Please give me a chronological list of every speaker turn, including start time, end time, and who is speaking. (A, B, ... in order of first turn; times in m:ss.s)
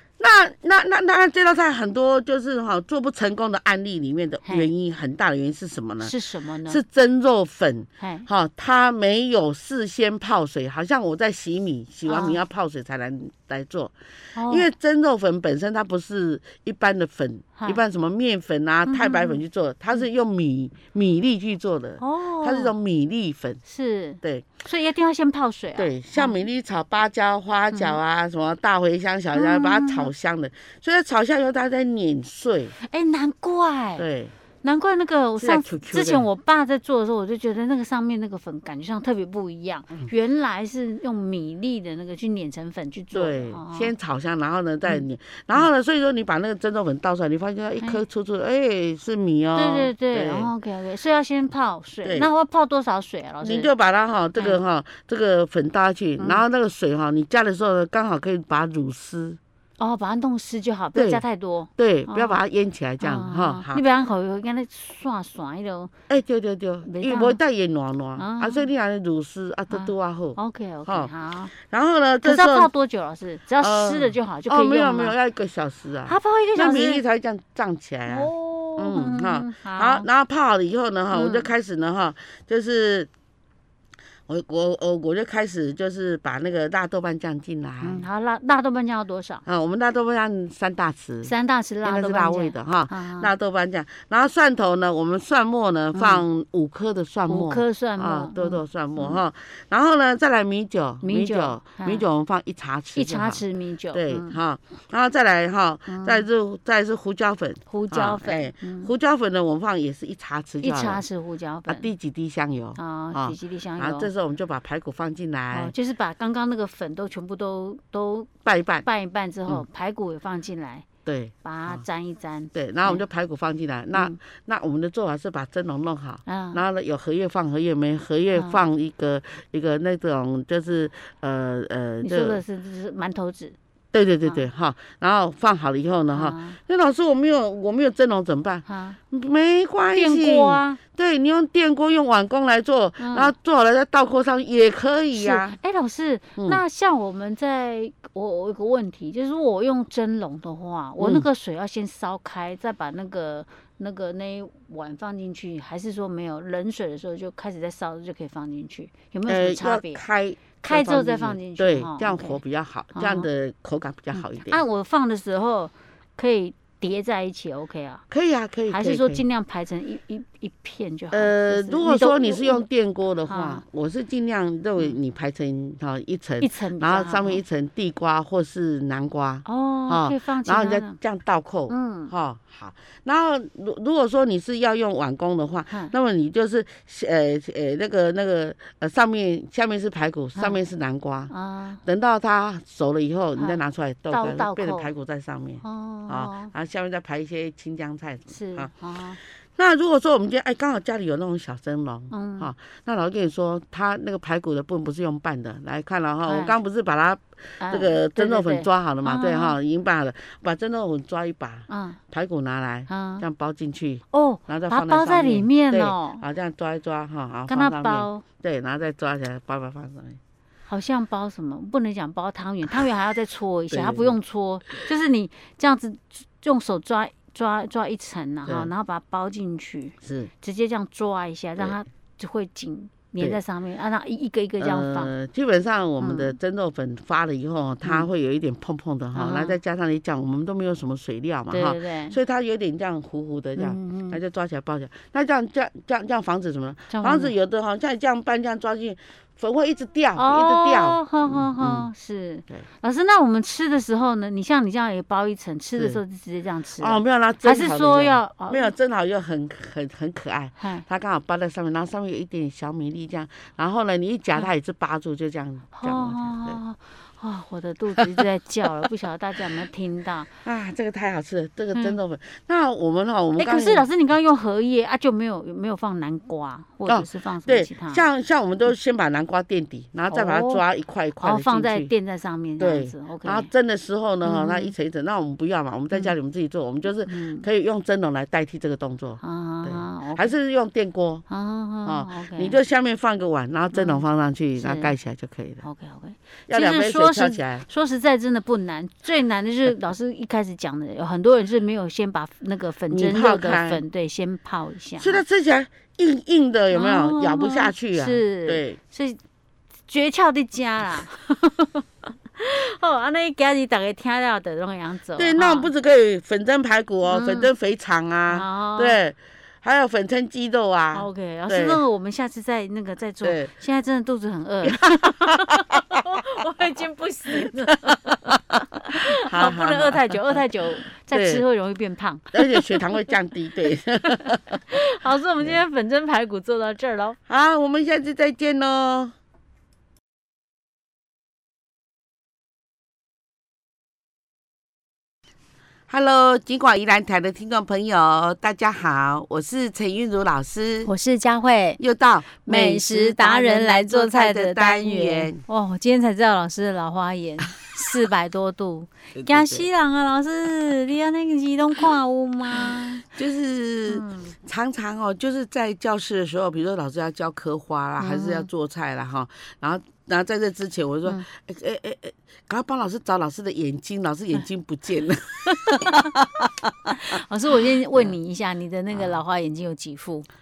0:00.2-0:06.1 A
0:04.4-0:04.7 B
0:06.0-0:06.8 B
0:06.7-0:13.9 A
0:08.0-0:08.3 B
0:12.1-0:12.4 B
0:14.4-0:14.7 B
0:14.5-0:23.6 A
0:18.9-0:19.4 B
0:22.0-0:22.7 B
0:23.6-0:26.4 B
0:24.2-0:24.5 A
0:25.8-0:32.8 A
0:27.7-0:28.0 B
0:29.3-0:30.1 B
0:32.8-0:34.0 B
0:34.0-0:34.3 A
0:34.6-0:43.9 B
0:35.4-0:36.3 A
0:43.1-0:50.5 A
0:49.6-0:53.7 B
0:52.0-0:52.3 A
0:53.4-0:59.4 A
0:56.2-0:56.4 B
0:59.8-1:02.4 B
1:01.0-1:01.2 A
1:01.8-1:03.8 A
1:03.0-1:05.9 B
1:06.1-1:12.7 A
1:06.8-1:07.4 B
1:08.2-1:08.7 B
1:09.7-1:11.5 B
1:12.2-1:15.2 B
1:13.6-1:23.1 A
1:16.1-1:17.0 B
1:18.1-1:20.1 B
1:21.1-1:21.5 B
1:24.3-1:28.1 A
1:27.8-1:29.4 B
1:29.5-1:31.3 A
1:31.2-1:33.3 B
1:31.8-1:51.0 A
1:35.9-1:36.2 B
1:37.3-1:39.2 B
1:41.0-1:42.0 B
1:43.0-1:44.4 B
1:45.9-1:46.2 B
1:47.7-1:48.9 B
1:50.6-1:51.9 B
1:51.7-1:55.7 A
1:52.8-1:54.1 B
1:55.5-1:58.3 B
1:58.4-1:58.9 A
1:58.8-2:00.9 B
2:01.1-2:01.8 A
2:01.4-2:03.0 B
2:02.5-2:12.4 A
2:06.3-2:06.6 B
2:12.0-2:13.6 B
2:13.9-2:25.6 A
2:16.1-2:16.6 B
2:18.7-2:19.0 B
2:19.9-2:20.8 B
2:23.0-2:23.3 B
2:25.1-2:40.0 B
2:31.0-2:31.3 A
2:39.3-2:44.6 A
2:40.6-2:42.4 B
2:43.0-2:43.3 B
2:44.1-2:48.0 B
2:48.1-2:49.2 A
2:48.7-2:52.7 B
2:51.1-3:11.3 A
2:53.3-2:53.6 B
2:56.4-2:57.4 B
2:59.4-3:01.0 B
3:01.7-3:02.1 B
3:11.3-3:11.8 B
3:11.8-3:18.7 A
3:14.1-3:14.9 B
3:15.6-3:16.5 B
3:18.3-3:19.2 B
3:19.6-3:40.2 A
3:22.1-3:22.5 B
3:26.3-3:26.6 B
3:27.6-3:29.6 B
3:31.7-3:32.0 B
3:32.9-3:33.2 B
3:34.1-3:36.2 B
3:37.5-3:38.2 B
3:40.7-3:55.1 B
3:43.7-3:44.2 A
3:50.0-3:50.3 A
3:54.6-4:11.9 A
3:56.0-3:56.4 B
3:59.1-3:59.6 B
4:01.5-4:02.2 B
4:03.6-4:04.2 B
4:06.9-4:07.3 B
4:10.2-4:18.7 B
4:16.8-4:26.6 A
4:20.6-4:20.8 B
4:25.8-4:30.3 B
4:28.0-4:28.2 A
4:30.4-4:33.9 A
4:33.4-4:38.0 B
4:36.9-4:41.9 A
4:40.1-4:40.6 B
4:41.2-4:43.5 B
4:42.6-4:51.2 A
4:44.2-4:44.8 B
4:47.1-4:47.5 B
4:49.2-4:50.3 B
4:51.3-4:52.6 B
4:51.8-4:55.6 A
4:53.7-4:54.0 B
4:54.6-4:54.9 B
4:55.6-5:05.2 B
4:56.5-4:57.7 A
5:02.9-5:03.8 A
5:05.0-5:08.8 A
5:06.7-5:09.2 B
5:09.9-5:15.7 B
5:15.2-5:21.8 A
5:17.1-5:17.5 B
5:18.3-5:19.0 B
5:20.9-5:32.9 B
5:23.2-5:23.5 A
5:24.6-5:26.2 A
5:27.4-5:30.4 A
5:31.1-5:31.4 A
5:32.3-5:34.7 A
5:34.1-5:37.2 B
5:37.3-5:39.2 A
5:45.9-5:50.9 A
5:50.8-5:51.8 B
5:51.8-5:55.4 A
5:52.4-6:03.0 B
5:59.1-5:59.7 A
6:03.1-6:17.0 A
6:03.9-6:04.3 B
6:08.0-6:08.5 B
6:15.5-6:16.2 B
6:16.9-6:20.3 B